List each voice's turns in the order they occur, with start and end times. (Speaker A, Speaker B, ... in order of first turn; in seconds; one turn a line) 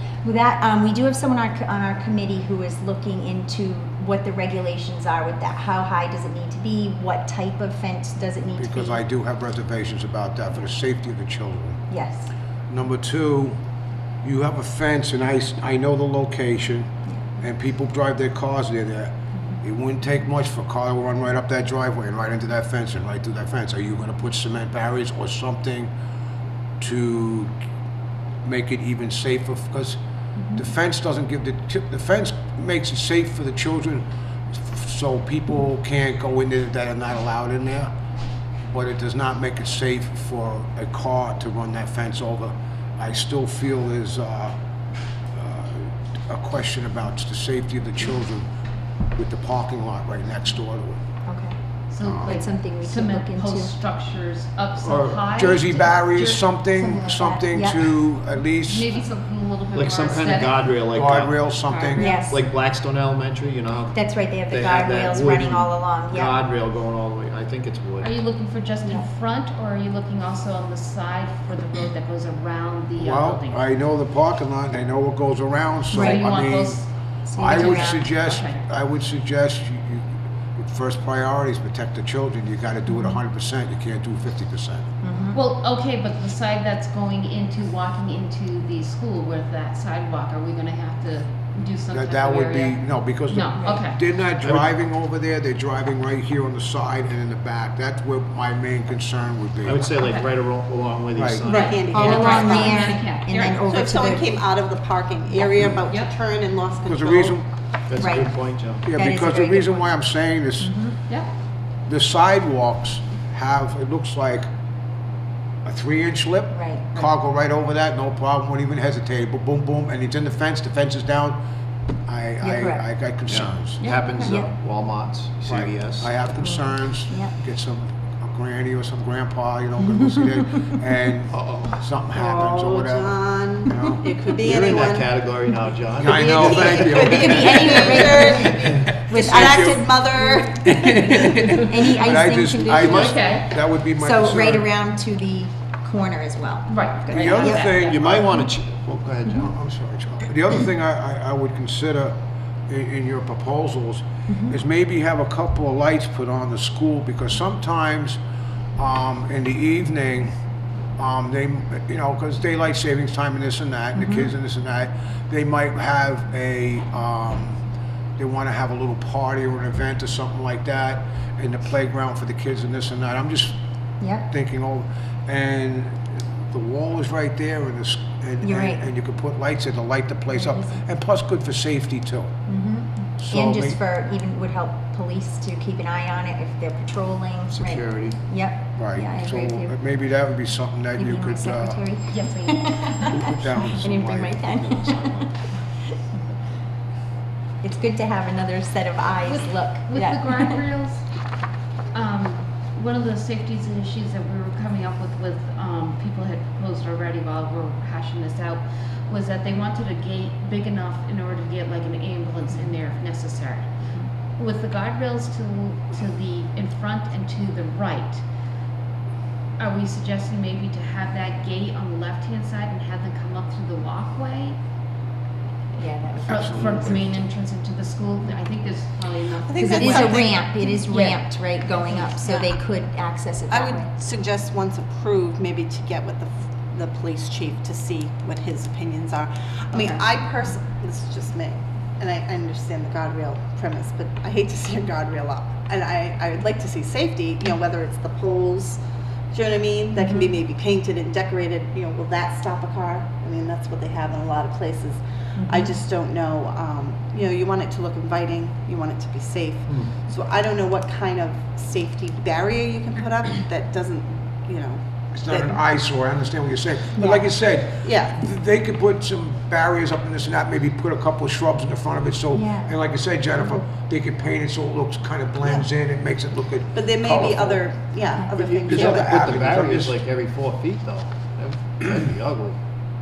Speaker A: 0.2-9.0
Speaker B: 8.6-11.8
Speaker A: 11.9-12.3
Speaker B: 12.7-13.6
Speaker B: 14.2-25.9
Speaker B: 26.8-27.5
Speaker B: 28.4-30.0
Speaker B: 30.6-37.9
Speaker B: 38.6-44.5
Speaker B: 45.3-48.5
Speaker B: 49.1-51.0
Speaker A: 51.2-51.6
Speaker C: 51.9-56.4
Speaker B: 52.0-52.4
Speaker A: 52.2-53.7
Speaker D: 54.8-55.2
Speaker B: 54.9-58.9
Speaker A: 56.7-58.0
Speaker C: 58.6-60.8
Speaker D: 59.7-61.5
Speaker B: 60.9-62.2
Speaker C: 61.6-62.3
Speaker A: 61.9-62.5
Speaker D: 62.3-68.1
Speaker A: 63.9-66.4
Speaker C: 68.0-73.6
Speaker B: 73.0-76.8
Speaker A: 75.9-76.3
Speaker C: 75.9-76.9
Speaker A: 77.2-78.1
Speaker B: 77.3-84.9
Speaker C: 77.4-78.6
Speaker A: 82.9-83.2
Speaker A: 85.0-85.4
Speaker C: 85.3-94.0
Speaker B: 91.9-99.8
Speaker D: 94.4-94.7
Speaker D: 99.6-102.3
Speaker C: 100.0-100.3
Speaker B: 101.1-101.5
Speaker E: 101.4-103.0
Speaker C: 101.4-103.6
Speaker A: 101.9-104.4
Speaker E: 103.6-107.4
Speaker A: 105.3-105.7
Speaker C: 105.9-106.1
Speaker B: 106.8-107.5
Speaker D: 107.9-108.8
Speaker A: 108.0-108.3
Speaker B: 108.8-110.9
Speaker A: 108.9-110.0
Speaker A: 110.6-111.0
Speaker B: 111.9-114.5
Speaker B: 115.6-121.4
Speaker A: 116.5-116.9
Speaker B: 122.0-123.8
Speaker A: 122.4-122.8
Speaker D: 123.3-126.1
Speaker C: 123.8-124.4
Speaker A: 124.2-124.5
Speaker B: 125.5-134.1
Speaker A: 126.4-127.3
Speaker D: 131.3-131.7
Speaker E: 132.1-135.3
Speaker D: 134.4-136.6
Speaker E: 135.9-141.1
Speaker B: 136.0-137.9
Speaker A: 136.7-140.5
Speaker B: 139.2-139.8
Speaker B: 140.6-144.7
Speaker A: 141.6-147.8
Speaker D: 142.8-143.1
Speaker C: 142.8-143.5
Speaker C: 146.7-148.0
Speaker B: 147.1-148.3
Speaker D: 147.9-149.5
Speaker B: 149.4-158.2
Speaker A: 154.3-154.6
Speaker B: 158.8-160.3
Speaker B: 161.0-167.6
Speaker A: 163.9-164.3
Speaker B: 168.2-173.6
Speaker A: 174.0-174.3
Speaker B: 174.3-182.4
Speaker A: 178.4-178.8
Speaker A: 180.3-180.8
Speaker A: 182.5-189.8
Speaker B: 183.2-183.8
Speaker D: 187.5-188.2
Speaker B: 188.7-191.8
Speaker A: 190.9-195.5
Speaker C: 192.1-193.0
Speaker B: 193.0-195.3
Speaker A: 197.6-200.6
Speaker C: 199.2-201.0
Speaker C: 201.9-213.7
Speaker C: 214.4-218.2
Speaker C: 219.6-224.6
Speaker A: 225.8-227.0
Speaker B: 226.2-227.2
Speaker C: 226.2-231.2
Speaker E: 229.4-230.4
Speaker A: 229.6-233.9
Speaker E: 232.2-232.5
Speaker E: 233.5-248.8
Speaker A: 239.7-240.0
Speaker E: 249.3-265.6
Speaker A: 249.9-250.3
Speaker A: 255.4-255.7
Speaker D: 259.7-259.9
Speaker B: 265.1-277.6
Speaker A: 266.9-267.2
Speaker E: 267.8-268.1
Speaker A: 272.3-272.7
Speaker E: 275.4-275.7
Speaker E: 276.7-279.5
Speaker B: 278.3-280.0
Speaker D: 278.6-282.6